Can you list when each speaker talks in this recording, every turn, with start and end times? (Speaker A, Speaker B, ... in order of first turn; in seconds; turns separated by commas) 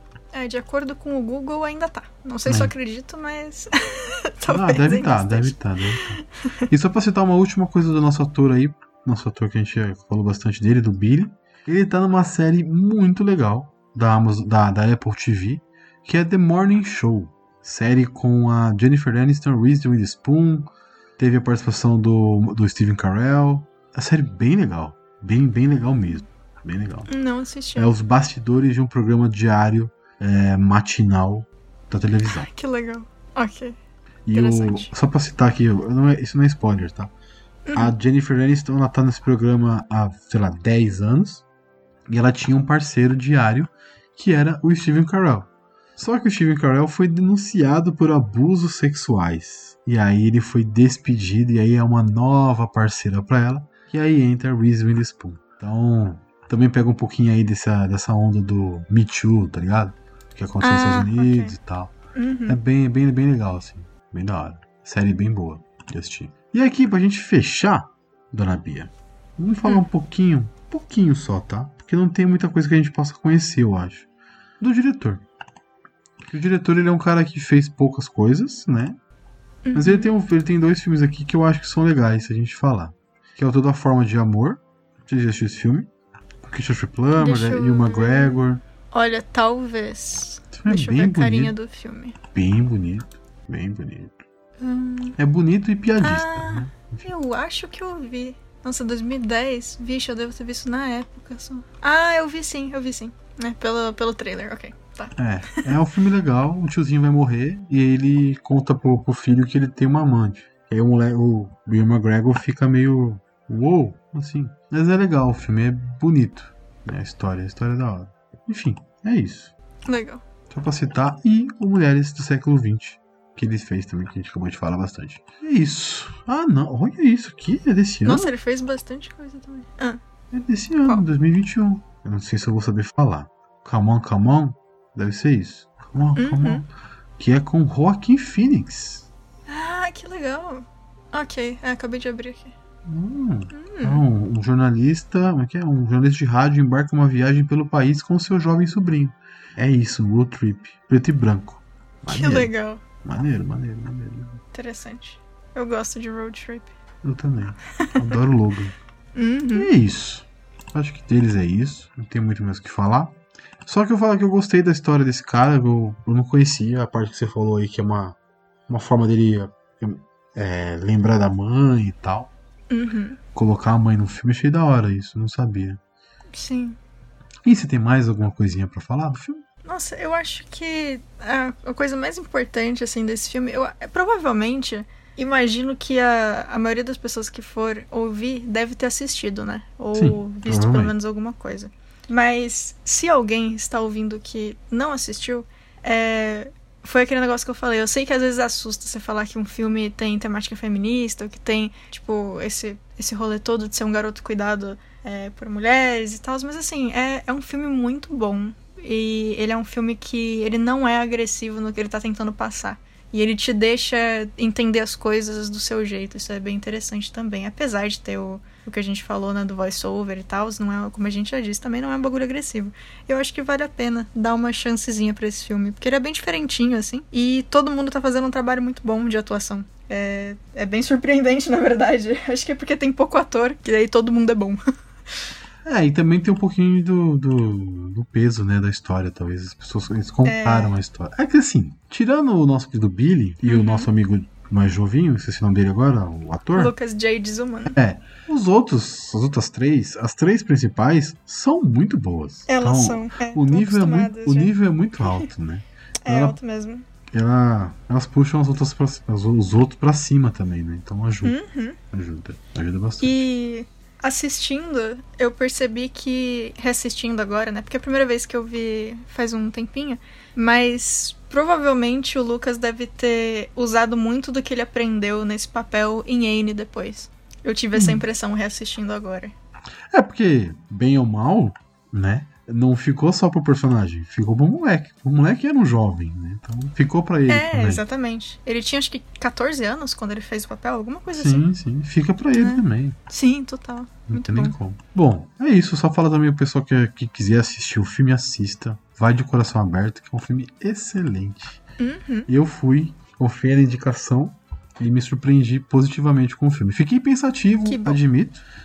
Speaker A: 0.3-6.1, Speaker B: 2.5-2.7, Speaker B: 4.5-27.1, Speaker A: 27.1-27.9, Speaker B: 27.8-32.5, Speaker A: 32.5-33.8, Speaker B: 34.3-37.1, Speaker A: 34.3-34.9, Speaker A: 37.7-37.9, Speaker B: 37.7-41.4, Speaker B: 42.1-61.9, Speaker A: 60.6-61.5, Speaker A: 62.1-62.5, Speaker B: 62.5-74.1, Speaker B: 74.6-75.2, Speaker B: 76.3-79.0, Speaker A: 79.7-80.1, Speaker B: 79.7-85.9, Speaker B: 86.4-88.6, Speaker A: 87.2-92.2, Speaker B: 90.5-91.5, Speaker B: 92.3-94.2, Speaker A: 94.6-95.2, Speaker B: 95.2-97.0, Speaker A: 96.0-105.7, Speaker B: 105.2-119.5, Speaker A: 119.9-120.2, Speaker B: 120.5-128.3, Speaker A: 128.0-130.0, Speaker B: 130.3-136.7, Speaker A: 136.2-136.6, Speaker B: 137.2-139.1, Speaker A: 139.5-142.5, Speaker B: 142.8-152.5, Speaker A: 143.5-144.0, Speaker A: 152.1-152.8, Speaker B: 153.0-154.4, Speaker A: 154.5-156.7, Speaker B: 157.0-158.7, Speaker A: 159.1-159.7, Speaker B: 159.5-168.2, Speaker B: 168.7-172.3, Speaker A: 172.7-173.2, Speaker B: 173.3-175.8, Speaker A: 176.3-176.8, Speaker B: 177.4-179.4, Speaker A: 179.6-234.6, Speaker B: 189.9-190.9, Speaker B: 235.6-246.7, Speaker A: 240.2-240.8, Speaker A: 243.4-243.9, Speaker A: 246.5-247.8, Speaker B: 247.7-256.4, Speaker A: 252.5-254.5, Speaker A: 256.0-256.8, Speaker B: 257.1-261.4, Speaker A: 261.2-261.8, Speaker B: 261.9-263.2, Speaker A: 263.0-279.3, Speaker B: 277.7-278.0, Speaker B: 279.9-287.8, Speaker A: 287.3-291.4, Speaker B: 291.1-293.0, Speaker A: 292.4-294.5, Speaker B: 294.1-301.6, Speaker A: 301.8-302.3, Speaker B: 302.3-308.4, Speaker A: 307.6-308.0